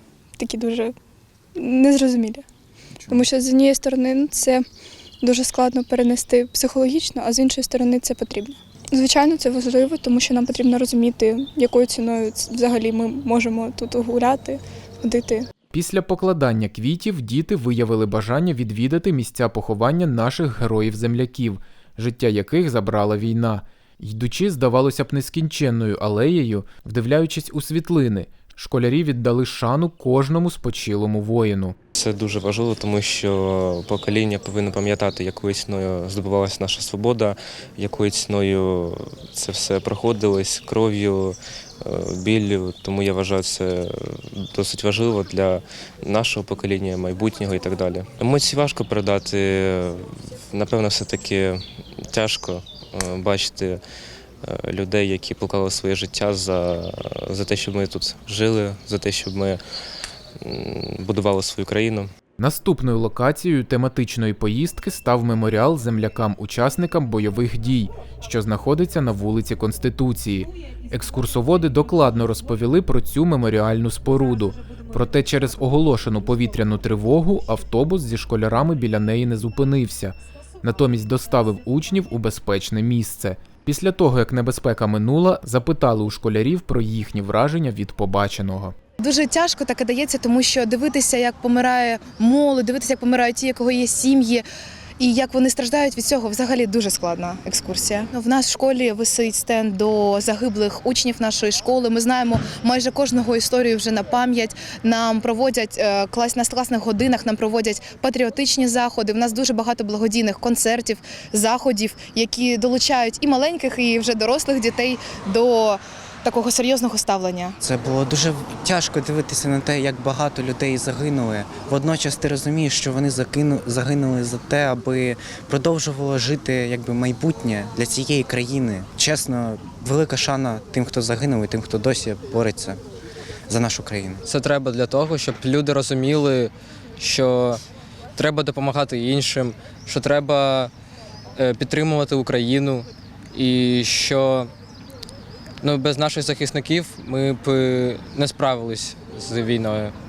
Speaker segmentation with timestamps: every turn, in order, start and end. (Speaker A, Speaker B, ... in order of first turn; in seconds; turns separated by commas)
Speaker A: 0.4-0.9, Speaker A: 1.6-2.4, Speaker A: 3.1-4.6, Speaker A: 5.2-15.5, Speaker B: 15.7-31.8, Speaker C: 32.0-53.8, Speaker C: 54.4-59.6, Speaker C: 60.4-62.1, Speaker B: 62.4-88.7, Speaker D: 89.0-94.4, Speaker D: 95.0-117.6, Speaker E: 117.6-132.8, Speaker E: 133.5-134.2, Speaker F: 134.3-137.6, Speaker F: 138.2-140.7, Speaker F: 141.4-144.5, Speaker F: 145.6-149.9